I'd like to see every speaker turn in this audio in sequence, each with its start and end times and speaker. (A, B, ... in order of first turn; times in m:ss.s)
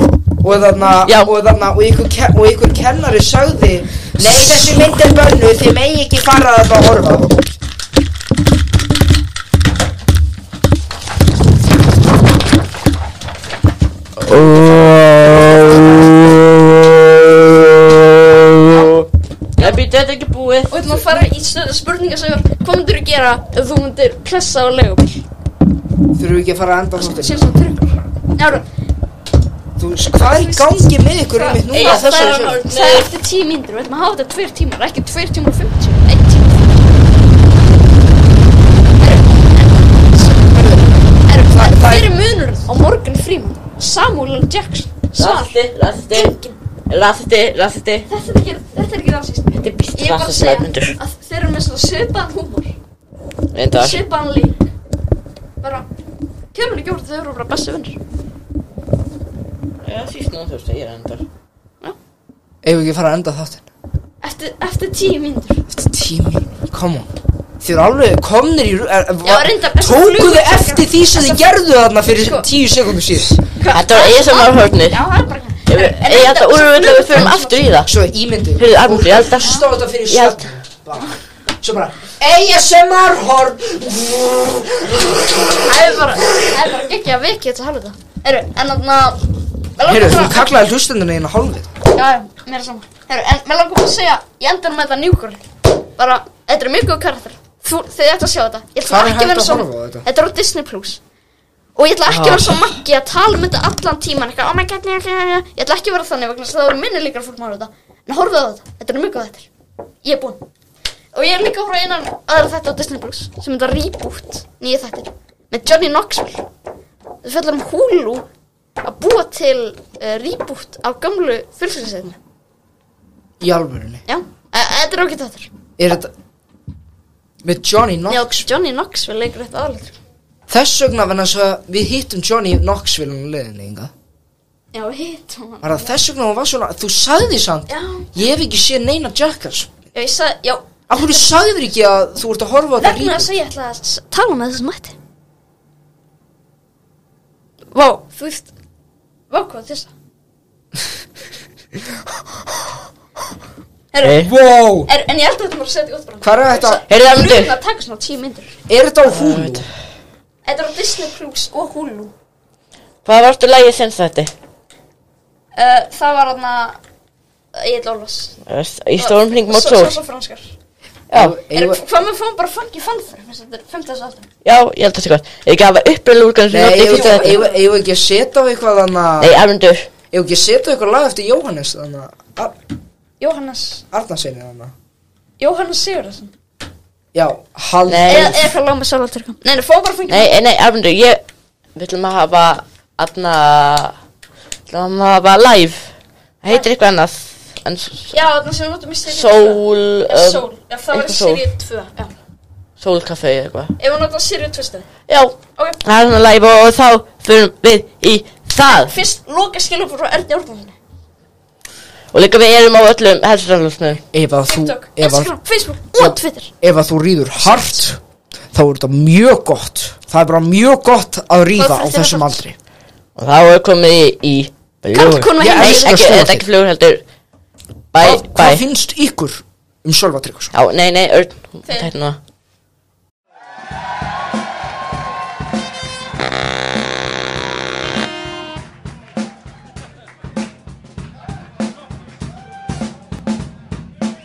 0:00.4-0:07.4 A
0:01.0-0:01.3 B
0:14.2-0:21.0 B
0:20.7-0:25.2 C
0:26.1-0:27.5 A
0:27.0-0:28.6 C
0:29.8-0:32.6 A
0:30.2-0:36.8 C
0:31.7-0:33.2 B
0:39.0-0:40.6 C
0:40.5-0:42.1 A
0:41.2-0:45.6 C
0:45.2-0:46.4 B
0:46.1-0:46.6 C
0:46.9-0:48.1 B
0:48.1-0:52.7 C
0:49.6-0:51.0 B
0:53.5-0:54.0 B
0:53.8-0:54.6 C
0:55.6-0:55.9 C
0:56.5-0:58.0 C
0:59.8-1:01.2 B
1:02.6-1:03.6 A
1:04.2-1:05.6 C
1:05.7-1:07.1 A
1:07.6-1:13.4 A
1:09.2-1:11.5 C
1:12.1-1:12.5 C
1:13.6-1:17.8 C
1:13.7-1:15.0 B
1:15.7-1:17.9 B
1:17.8-1:26.1 A
1:18.6-1:20.5 B
1:19.4-1:19.7 C
1:25.6-1:30.5 C
1:29.9-1:31.7 A
1:31.9-1:35.4 C
1:36.0-1:41.0 C
1:38.9-1:40.0 A
1:41.8-1:49.5 C
1:42.0-1:42.7 B
1:50.0-1:50.4 C
1:51.1-1:56.4 C
1:57.2-1:58.2 C
1:58.8-2:02.2 C
2:03.4-2:04.0 A
2:04.1-2:05.5 C
2:05.8-2:06.1 A
2:07.4-2:08.4 A
2:08.1-2:10.0 C
2:10.5-2:13.9 A
2:14.7-2:15.9 C
2:15.6-2:19.7 A
2:17.7-2:18.1 C
2:19.9-2:21.3 C
2:20.9-2:23.3 A
2:22.8-2:24.9 C
2:27.7-2:28.5 C
2:29.3-2:29.9 C
2:33.9-2:34.2 C
2:34.0-2:34.3 B
2:34.2-2:34.9 A
2:34.8-2:38.5 C
2:36.2-2:36.8 A
2:36.9-2:37.5 B
2:38.7-2:39.7 A
2:39.0-2:39.6 B
2:40.4-2:42.1 C
2:43.0-2:44.3 B
2:45.5-2:46.8 C
2:47.5-2:48.4 C
2:48.5-2:50.0 B
2:49.0-2:50.5 C
2:51.1-2:51.4 B
2:51.1-2:51.8 A
2:51.5-2:54.2 C
2:54.4-2:57.4 B
2:56.5-2:59.4 A
2:56.8-2:57.6 C
2:59.2-2:59.9 B
3:00.1-3:02.5 A
3:03.2-3:03.8 C
3:03.9-3:04.7 A
3:05.4-3:06.3 C
3:07.1-3:08.4 A
3:07.9-3:08.4 B
3:08.1-3:10.4 C
3:10.1-3:11.2 B
3:11.8-3:13.9 B
3:14.7-3:18.1 B
3:18.1-3:22.1 C
3:19.1-3:21.4 B
3:22.8-3:23.7 B
3:23.8-3:24.9 C
3:25.1-3:29.0 B
3:28.6-3:30.8 C
3:32.1-3:34.0 B
3:34.1-3:35.3 A
3:34.4-3:36.5 C
3:36.0-3:38.0 A
3:37.4-3:37.8 C
3:38.5-3:42.6 A
3:41.6-3:42.4 C
3:43.2-3:47.0 B
3:44.9-3:46.0 C
3:45.4-3:46.5 A
3:47.9-3:48.6 B
3:48.0-3:50.5 A
3:50.5-3:52.2 B
3:51.6-3:51.9 C